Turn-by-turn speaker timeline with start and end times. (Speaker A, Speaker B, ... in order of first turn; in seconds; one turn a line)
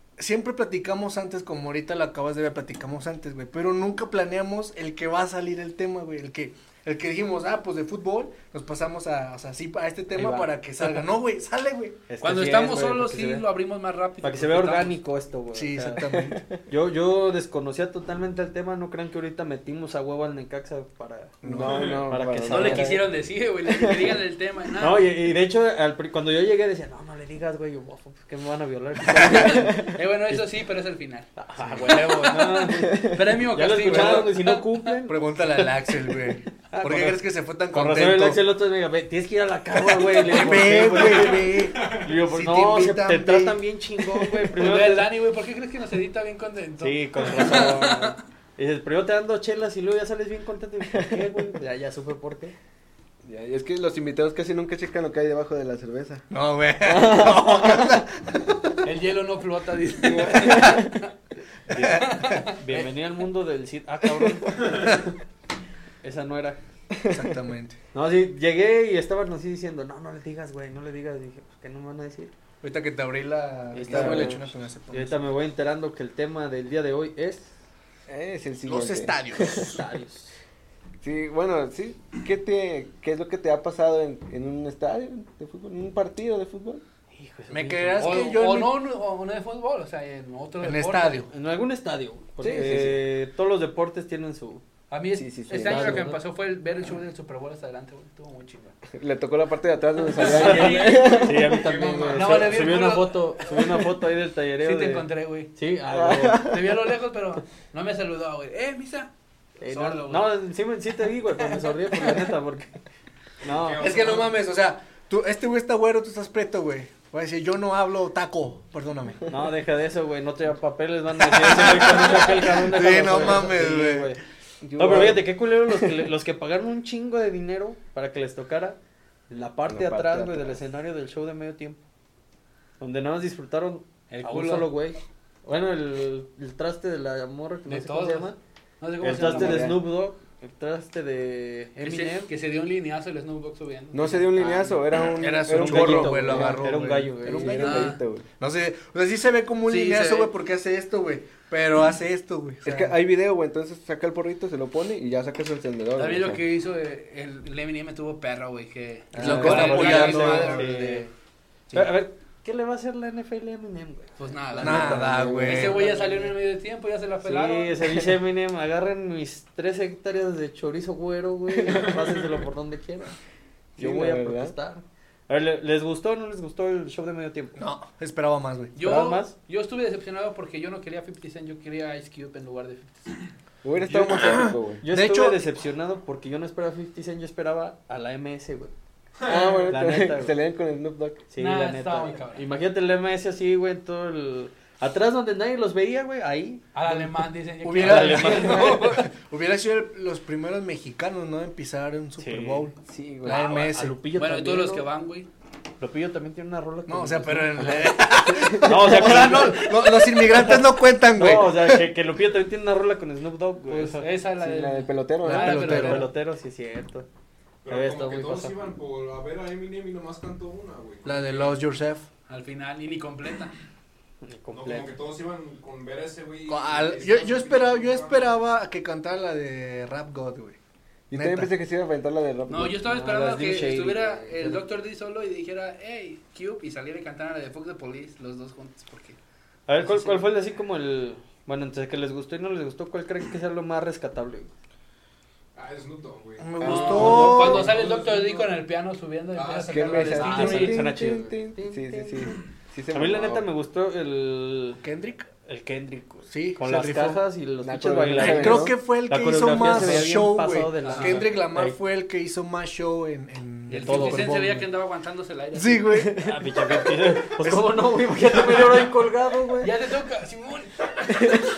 Speaker A: 0.2-12.0
Speaker B: 10.2-10.5
Speaker B: 12.1-13.5
Speaker C: 12.2-15.0
Speaker B: 14.2-16.0
Speaker A: 15.5-16.4
Speaker D: 16.1-16.6
Speaker B: 16.7-23.0
Speaker D: 21.4-23.1
Speaker A: 21.4-22.0
Speaker C: 22.4-25.1
Speaker D: 23.6-24.2
Speaker B: 24.8-30.5
Speaker C: 29.2-34.9
Speaker D: 29.2-29.9
Speaker B: 31.4-35.2
Speaker A: 31.6-32.2
Speaker D: 32.9-33.1
Speaker A: 33.8-34.3
Speaker A: 35.1-38.4
Speaker B: 36.7-45.1
Speaker A: 40.1-43.6
Speaker C: 40.4-41.0
Speaker E: 41.2-42.1
Speaker C: 44.6-48.2
Speaker B: 46.8-52.5
Speaker D: 53.2-56.3
Speaker A: 56.3-58.7
Speaker D: 56.8-58.0
Speaker C: 58.8-61.1
Speaker D: 60.0-61.0
Speaker B: 61.7-65.1
Speaker A: 61.8-62.4
Speaker C: 61.9-62.9
Speaker A: 64.8-65.0
Speaker B: 66.0-66.6
Speaker D: 66.9-67.4
Speaker A: 67.1-67.8
Speaker B: 67.9-72.3
Speaker A: 72.6-75.2
Speaker B: 73.7-77.5
Speaker D: 73.8-74.5
Speaker D: 78.1-79.8
Speaker A: 78.7-79.8
Speaker B: 79.5-80.4
Speaker D: 81.0-86.8
Speaker B: 87.1-88.3
Speaker A: 87.5-88.8
Speaker C: 88.0-91.3
Speaker A: 90.6-91.3
Speaker B: 91.3-94.6
Speaker D: 92.4-93.1
Speaker C: 94.9-98.8
Speaker D: 95.2-96.1
Speaker B: 95.6-96.2
Speaker D: 98.9-102.0
Speaker C: 100.1-101.4
Speaker B: 100.2-106.5
Speaker E: 101.5-102.7
Speaker C: 102.0-103.8
Speaker C: 104.6-105.5
Speaker D: 105.9-106.8
Speaker C: 106.4-109.1
Speaker B: 109.6-112.8
Speaker C: 109.6-110.3
Speaker B: 113.4-114.2
Speaker E: 113.5-114.3
Speaker A: 113.8-119.3
Speaker B: 119.3-124.2
Speaker A: 121.3-124.1
Speaker D: 124.6-126.0
Speaker B: 124.8-128.8
Speaker B: 129.3-131.8
Speaker D: 129.7-130.6
Speaker B: 132.8-138.4
Speaker C: 134.1-134.7
Speaker C: 137.7-139.8
Speaker B: 139.0-142.3
Speaker D: 139.0-139.8
Speaker C: 141.8-144.7
Speaker D: 143.9-146.7
Speaker A: 145.2-152.9
Speaker B: 145.5-147.8
Speaker D: 147.3-148.3
Speaker C: 147.6-148.0
Speaker C: 149.7-150.3
Speaker D: 152.6-156.4
Speaker C: 156.0-161.1
Speaker B: 159.1-161.1
Speaker D: 159.2-159.8
Speaker A: 159.2-160.8
Speaker B: 161.7-166.4
Speaker C: 164.2-168.0
Speaker A: 164.6-165.8
Speaker D: 164.7-165.8
Speaker B: 167.2-173.2
Speaker D: 173.8-174.6
Speaker B: 173.8-177.6
Speaker A: 177.6-178.8
Speaker C: 178.8-183.3
Speaker B: 178.8-179.3
Speaker D: 183.6-184.8
Speaker A: 183.9-185.4
Speaker B: 184.8-188.7
Speaker E: 189.2-189.7
Speaker D: 189.2-191.2
Speaker B: 189.3-190.3
Speaker B: 191.3-196.7
Speaker C: 191.4-192.5
Speaker C: 196.7-199.1
Speaker A: 197.6-203.9
Speaker B: 197.8-198.9
Speaker B: 202.2-202.7
Speaker D: 202.8-203.4
Speaker C: 203.3-205.3
Speaker B: 203.3-204.8
Speaker B: 205.8-210.6
Speaker A: 206.9-211.8
Speaker D: 208.3-209.0
Speaker C: 209.1-210.4
Speaker B: 211.1-214.1
Speaker C: 213.7-216.1
Speaker D: 214.4-216.0
Speaker A: 215.2-216.1
Speaker B: 215.6-217.1
Speaker E: 217.7-221.6
Speaker B: 217.7-218.6
Speaker A: 221.1-222.1
Speaker C: 222.3-223.6
Speaker B: 224.2-224.9
Speaker E: 224.5-228.2
Speaker C: 224.7-224.9
Speaker A: 226.5-230.6
Speaker D: 231.1-232.8
Speaker A: 231.1-231.5
Speaker C: 232.5-239.2
Speaker B: 232.8-234.6
Speaker B: 239.7-244.5
Speaker C: 239.8-240.3
Speaker E: 245.6-248.6
Speaker A: 246.4-247.7
Speaker D: 246.6-247.7
Speaker C: 246.6-250.8
Speaker E: 249.3-250.7
Speaker D: 249.7-253.5
Speaker B: 250.2-252.4
Speaker B: 252.9-254.8
Speaker A: 254.8-255.3
Speaker B: 255.4-261.8
Speaker A: 256.3-257.2
Speaker D: 257.6-258.8
Speaker A: 258.1-264.7
Speaker D: 259.6-260.0
Speaker C: 260.8-261.3
Speaker C: 263.7-266.1
Speaker B: 263.7-264.4
Speaker A: 265.6-267.7
Speaker D: 265.9-266.4
Speaker B: 266.2-269.7
Speaker C: 269.6-271.5